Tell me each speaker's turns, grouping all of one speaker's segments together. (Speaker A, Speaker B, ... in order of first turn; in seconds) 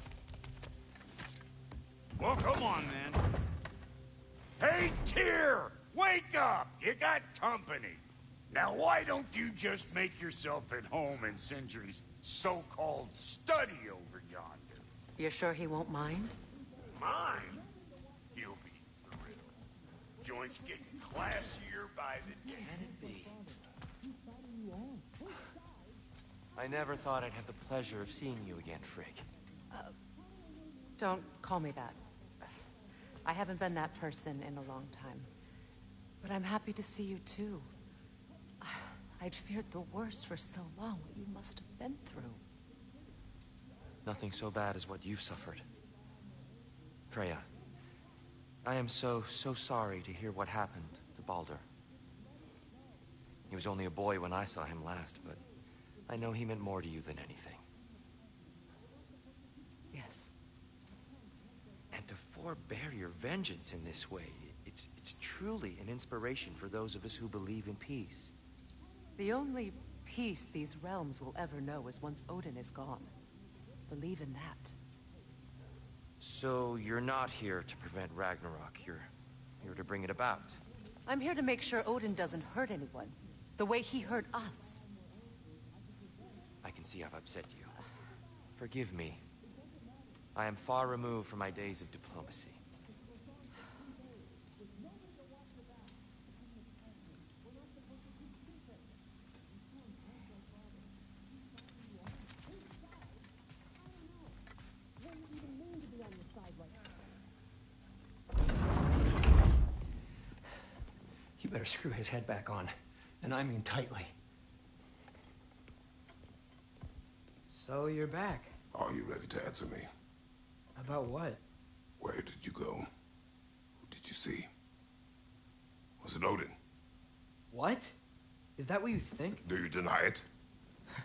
Speaker A: 2.2-3.2, 4.6-14.8, 17.0-17.7, 18.3-19.6, 20.2-22.7
Speaker B: 15.2-16.4, 31.0-32.0, 33.2-35.3, 36.2-37.7, 38.6-42.4, 59.9-60.3, 69.2-73.1, 73.9-74.8, 81.1-84.9
Speaker C: 22.6-23.4, 26.6-29.3, 44.0-45.7, 47.1-47.5, 48.6-51.6, 53.5-55.4, 56.1-57.6, 61.9-68.3, 76.2-80.6, 86.6-87.8, 88.5-89.2, 90.3-92.6
Speaker D: 111.4-114.2
Speaker E: 117.5-118.5, 120.8-121.4, 127.5-127.9, 128.6-129.4
Speaker F: 118.7-119.9, 122.0-122.9, 123.9-124.5, 126.0-126.6, 129.4-130.2